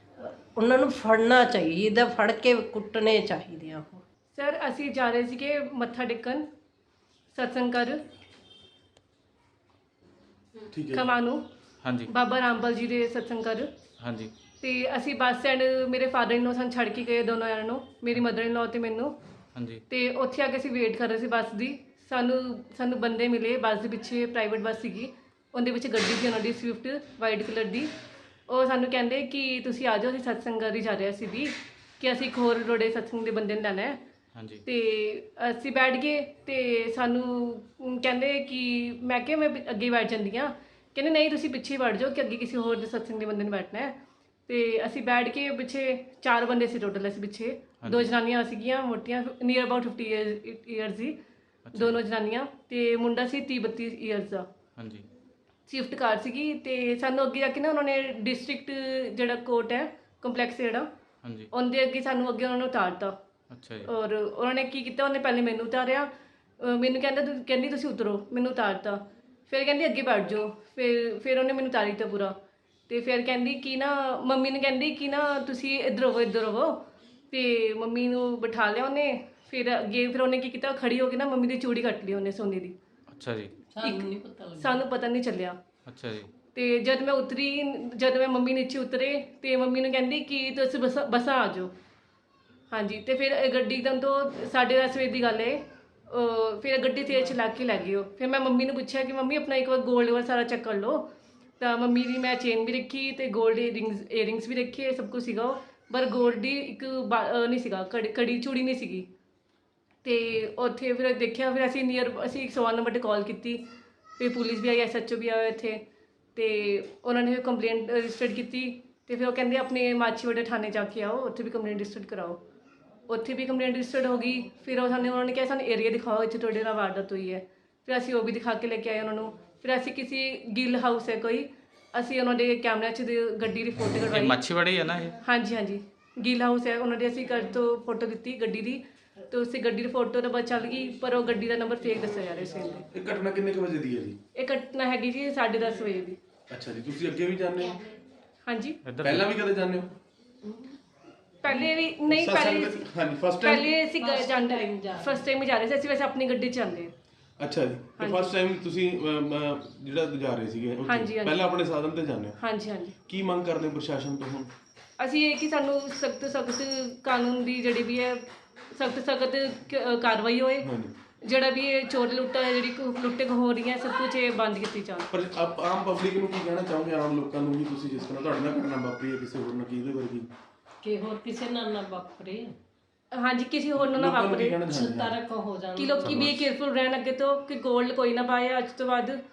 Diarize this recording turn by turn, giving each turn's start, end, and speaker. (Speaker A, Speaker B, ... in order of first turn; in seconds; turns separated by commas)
Speaker A: 0.2-4.0, Speaker B: 4.3-6.5, Speaker B: 7.3-8.0, Speaker C: 10.7-11.1, Speaker B: 10.9-11.5, Speaker D: 11.8-12.1, Speaker B: 12.1-13.7, Speaker D: 14.0-14.3, Speaker B: 14.6-19.1, Speaker D: 19.6-19.8, Speaker B: 19.9-27.9, Speaker B: 28.5-34.0, Speaker D: 34.4-34.6, Speaker B: 34.7-44.0, Speaker B: 44.5-51.2, Speaker D: 47.8-48.1, Speaker D: 51.7-52.0, Speaker B: 51.8-54.5, Speaker D: 54.8-55.1, Speaker B: 55.7-60.9, Speaker D: 61.2-61.5, Speaker B: 61.5-63.1, Speaker D: 63.5-63.9, Speaker B: 63.9-66.1, Speaker B: 66.6-72.3, Speaker B: 72.9-82.8, Speaker D: 83.1-83.5, Speaker A: 83.7-84.8, Speaker B: 83.8-84.1, Speaker B: 84.6-85.6, Speaker D: 85.9-86.3, Speaker B: 86.5-91.7, Speaker B: 92.7-101.1, Speaker B: 101.6-109.1, Speaker B: 110.0-113.7, Speaker B: 114.2-115.8, Speaker B: 116.3-122.4, Speaker B: 123.1-134.4, Speaker D: 134.1-135.1, Speaker B: 135.2-142.9, Speaker C: 142.9-144.2, Speaker B: 144.3-146.2, Speaker C: 146.5-147.8, Speaker B: 148.4-148.8, Speaker D: 148.8-149.3, Speaker C: 149.0-149.9, Speaker A: 150.4-150.8, Speaker B: 151.4-152.9, Speaker C: 152.1-153.7, Speaker B: 153.4-156.9, Speaker A: 154.0-155.2, Speaker C: 157.4-162.4, Speaker B: 158.0-158.3, Speaker B: 160.8-161.4, Speaker B: 162.4-162.9, Speaker C: 163.1-164.5, Speaker B: 165.0-170.7, Speaker C: 170.6-170.9, Speaker B: 171.2-175.1, Speaker C: 175.1-180.3, Speaker A: 180.8-182.5, Speaker B: 183.1-184.6, Speaker C: 183.8-185.2, Speaker A: 184.7-186.2, Speaker B: 185.8-189.2, Speaker C: 186.0-186.4